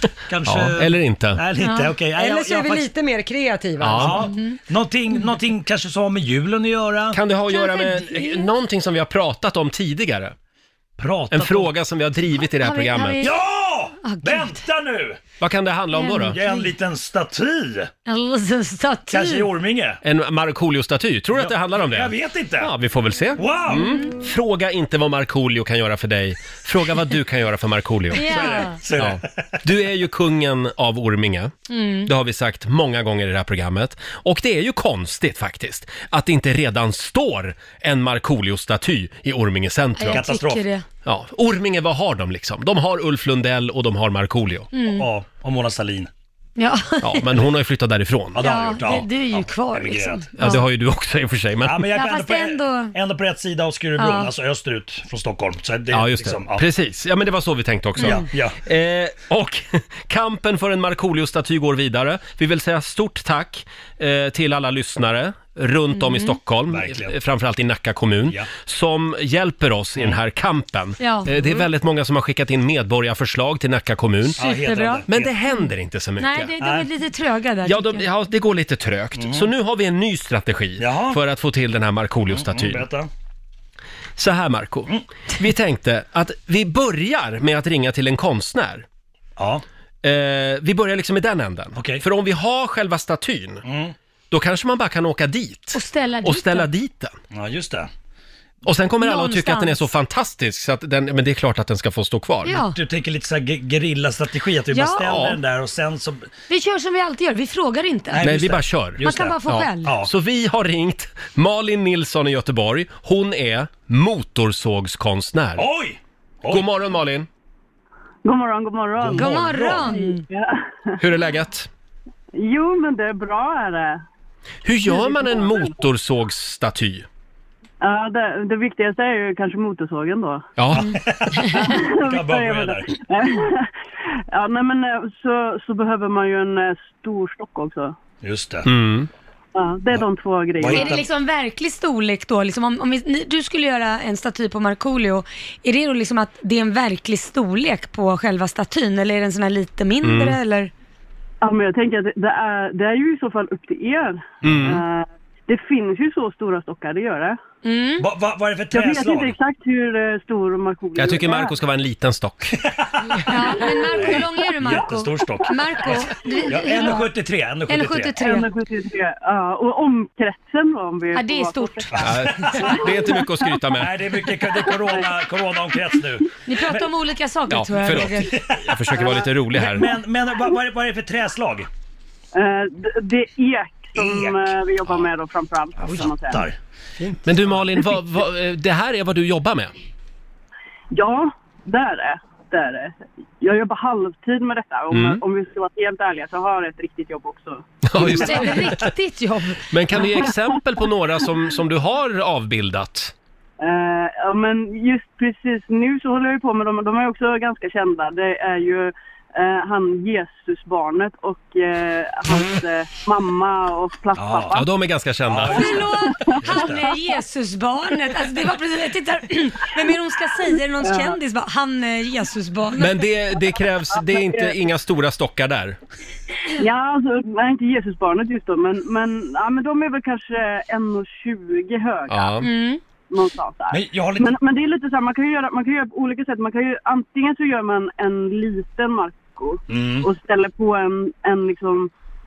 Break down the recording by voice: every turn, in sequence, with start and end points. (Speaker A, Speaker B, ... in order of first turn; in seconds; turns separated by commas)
Speaker A: 0.3-2.9, Speaker B: 0.5-1.4, Speaker C: 1.6-1.9, Speaker D: 2.1-4.3, Speaker B: 3.8-4.3, Speaker A: 4.0-7.2, Speaker B: 7.1-10.3, Speaker C: 7.5-8.5, Speaker A: 11.0-11.7, Speaker B: 11.3-13.3, Speaker C: 12.5-13.4, Speaker A: 13.2-15.2, Speaker C: 14.0-14.6, Speaker B: 15.4-16.4, Speaker C: 16.0-16.7, Speaker A: 16.3-17.9, Speaker C: 18.1-19.5, Speaker A: 19.1-20.0, Speaker B: 20.0-31.5, Speaker A: 21.3-22.7, Speaker A: 23.4-23.9, Speaker C: 23.8-24.1, Speaker C: 28.1-28.8, Speaker A: 28.2-29.6, Speaker C: 31.7-32.1, Speaker B: 32.0-40.2, Speaker C: 40.0-40.9, Speaker A: 40.1-40.7, Speaker B: 41.0-44.7, Speaker C: 44.7-45.1, Speaker A: 44.9-46.1, Speaker C: 46.6-47.3, Speaker B: 47.0-48.5, Speaker A: 48.3-50.3, Speaker C: 48.4-50.6, Speaker B: 50.4-51.9, Speaker A: 51.6-56.7, Speaker C: 51.9-53.0, Speaker C: 54.0-54.3, Speaker B: 55.9-74.4, Speaker A: 58.0-58.6, Speaker C: 58.0-58.3, Speaker C: 65.9-66.4, Speaker A: 66.7-67.2, Speaker C: 71.0-71.3, Speaker A: 74.4-75.3, Speaker C: 74.4-75.0, Speaker B: 75.1-76.5, Speaker C: 76.2-78.0, Speaker A: 76.6-76.9, Speaker B: 77.7-82.8, Speaker A: 79.2-79.5, Speaker A: 80.8-81.2, Speaker A: 82.3-83.1, Speaker B: 84.2-88.8, Speaker A: 89.4-89.6, Speaker B: 90.0-93.6, Speaker A: 91.8-92.0, Speaker A: 93.6-94.0, Speaker B: 94.3-97.1, Speaker C: 95.7-96.7, Speaker A: 97.3-97.9, Speaker B: 98.7-102.6, Speaker C: 99.0-99.8, Speaker C: 102.5-102.8, Speaker A: 102.7-106.3, Speaker C: 104.7-105.3, Speaker B: 105.0-105.4, Speaker C: 106.5-108.2, Speaker A: 108.1-110.1, Speaker B: 108.2-115.7, Speaker C: 109.0-110.0, Speaker A: 115.6-116.7, Speaker B: 116.5-117.3, Speaker E: 118.2-119.2, Speaker A: 119.0-120.0, Speaker C: 119.2-120.2, Speaker E: 119.9-121.0, Speaker B: 121.0-121.7, Speaker E: 122.3-124.0, Speaker B: 124.7-127.1, Speaker E: 125.0-125.7, Speaker E: 127.8-130.5, Speaker B: 130.6-130.9, Speaker A: 130.7-133.0, Speaker E: 131.6-133.7, Speaker E: 134.3-138.0, Speaker A: 138.2-138.7, Speaker B: 138.7-139.1, Speaker E: 139.6-140.9, Speaker A: 140.6-141.1, Speaker C: 140.7-150.7, Speaker B: 150.0-150.4, Speaker E: 151.4-157.4, Speaker B: 154.4-154.8, Speaker C: 157.6-158.1, Speaker A: 158.0-159.4, Speaker E: 158.7-161.5, Speaker B: 161.0-162.6, Speaker A: 162.6-168.3, Speaker C: 163.3-167.1, Speaker C: 167.7-168.5, Speaker E: 168.2-172.0, Speaker C: 171.1-172.4, Speaker A: 171.9-172.7, Speaker B: 172.0-173.9, Speaker A: 173.7-176.9, Speaker E: 174.6-175.1, Speaker C: 176.5-178.4, Speaker B: 177.5-179.9, Speaker A: 177.9-181.7, Speaker E: 182.3-186.5, Speaker A: 183.9-185.1, Speaker A: 185.8-187.1, Speaker B: 187.2-189.7, Speaker E: 190.9-198.7, Speaker B: 194.9-195.2, Speaker B: 197.9-198.7, Speaker C: 198.1-200.1, Speaker B: 199.7-203.1, Speaker E: 203.6-214.7, Speaker A: 214.2-214.6, Speaker B: 214.5-215.9, Speaker A: 215.3-216.9, Speaker C: 215.5-223.1, Speaker E: 216.1-216.9, Speaker E: 220.8-221.2, Speaker B: 222.8-225.8, Speaker E: 223.9-224.6, Speaker E: 226.6-232.4, Speaker B: 232.1-232.5, Speaker C: 232.4-232.8, Speaker E: 233.1-241.9, Speaker A: 233.7-234.3, Speaker A: 239.7-240.1